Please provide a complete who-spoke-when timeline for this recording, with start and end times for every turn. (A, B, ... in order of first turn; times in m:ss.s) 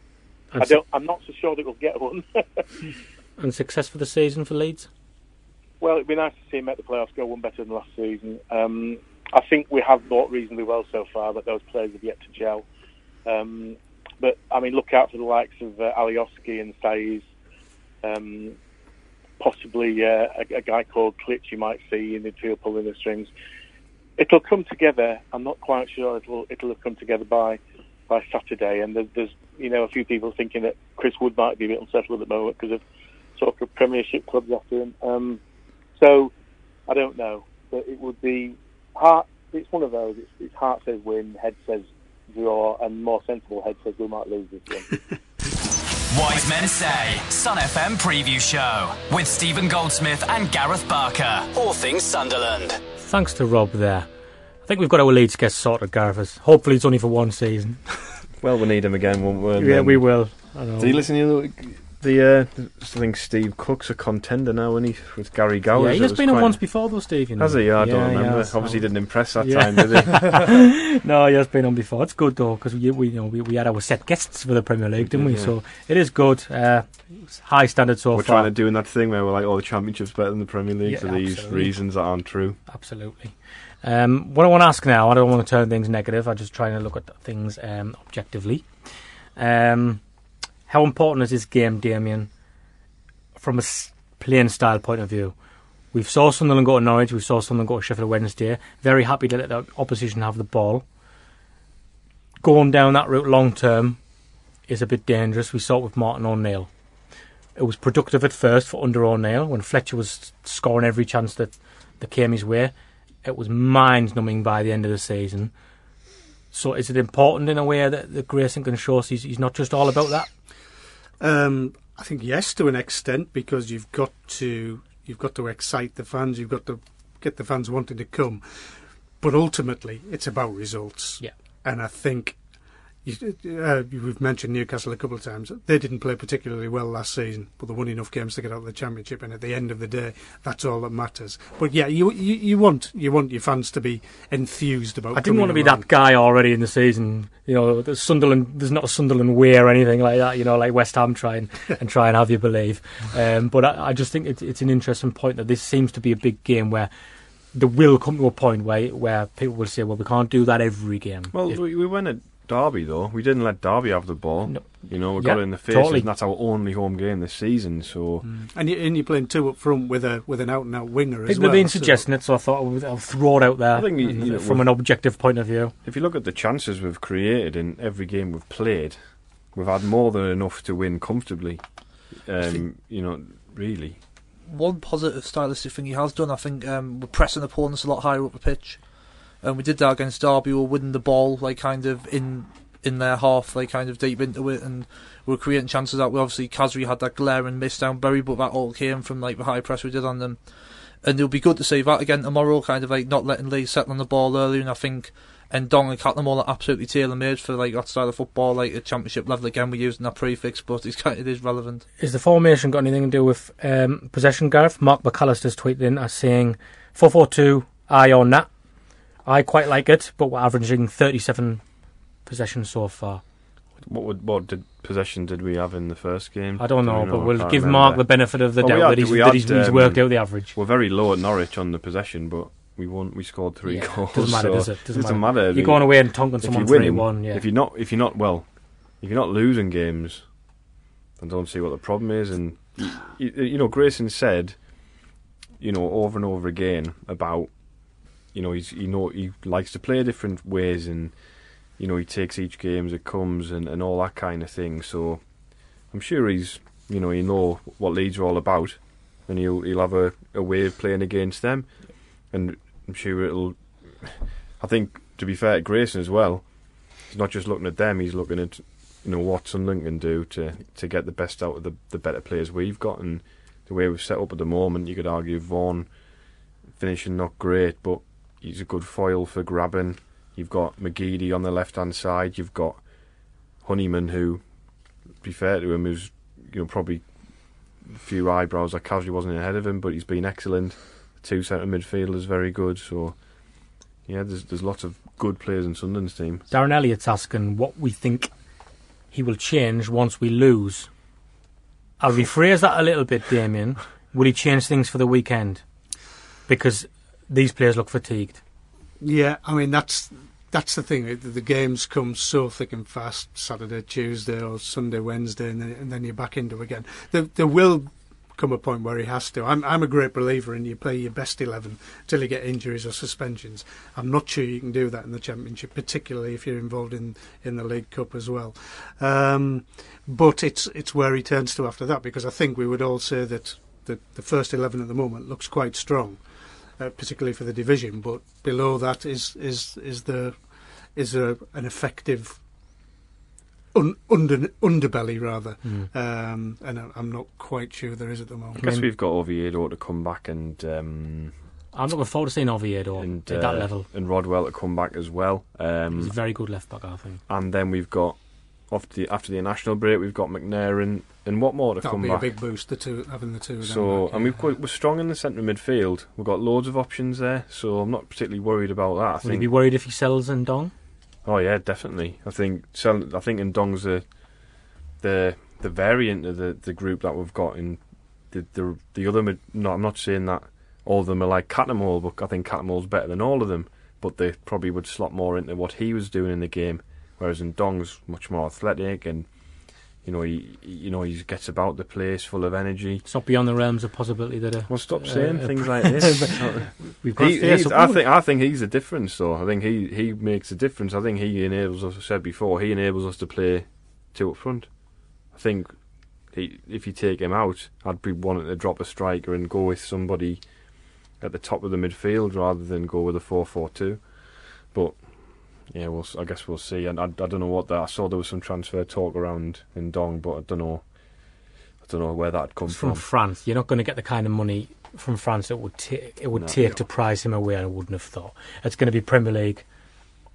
0:00.5-0:00.8 A
0:00.6-0:02.7 B
0:03.4-0:04.9 A
0:05.8-0:12.6 B
0:13.2-0:17.3 B
0:18.0-0:18.6 B
0:19.4-0:23.3 B
0:24.2-0:32.8 B
0:33.4-0:35.4 B
0:36.0-0:36.3 B
0:36.9-0:44.8 B
0:46.1-0:52.8 C
0:53.0-0:54.1 A
0:54.7-0:57.8 A
0:58.4-1:06.7 D
0:59.6-1:01.0 A
1:05.7-1:18.5 A
1:07.4-1:10.5 D
1:15.0-1:15.5 D
1:18.1-1:22.6 D
1:20.8-1:21.8 A
1:22.7-1:28.6 A
1:29.4-1:30.0 A
1:30.7-1:32.3 A
1:33.4-1:35.3 A
1:35.9-1:40.8 A
1:42.4-1:44.0 A
1:44.7-1:46.7 A
1:47.6-1:52.7 A
1:53.2-1:55.5 A
1:56.5-2:00.3 A
2:01.2-2:12.4 E
2:13.0-2:25.8 E
2:25.1-2:36.9 A
2:37.5-2:41.6 A
2:41.3-2:48.2 D
2:44.5-2:46.1 A
2:48.2-2:52.0 E
2:51.2-2:55.7 A
2:53.7-2:54.7 D
2:55.8-2:59.0 D
2:59.5-3:04.0 D
3:04.5-3:31.8 F
3:32.0-3:38.5 A
3:39.2-3:41.6 A
3:42.2-3:43.2 A
3:43.8-4:00.3 D
3:46.6-3:50.5 A
3:53.6-3:57.4 A
4:01.2-4:04.9 D
4:05.6-4:07.5 D
4:08.3-4:11.2 D
4:11.8-4:35.9 D
4:36.8-4:42.8 D
4:43.6-4:44.4 D
4:45.2-4:47.0 D
4:47.8-4:56.4 D
4:56.5-4:58.3 A
4:59.1-5:00.9 A
5:02.0-5:05.6 A
5:06.5-5:08.4 A
5:09.0-5:42.4 E
5:43.7-5:48.6 E
5:45.6-5:45.9 A
5:48.6-5:48.9 A
5:48.6-5:51.4 D
5:51.7-5:53.9 A
5:53.0-5:56.1 D
5:55.9-5:57.2 A
5:57.3-6:02.3 D
6:01.8-6:04.3 E
6:03.6-6:09.5 D
6:09.2-6:10.7 A
6:11.2-6:33.0 D
6:33.0-6:38.0 A
6:34.7-7:03.0 D
7:02.7-7:09.6 A
7:06.3-7:06.6 D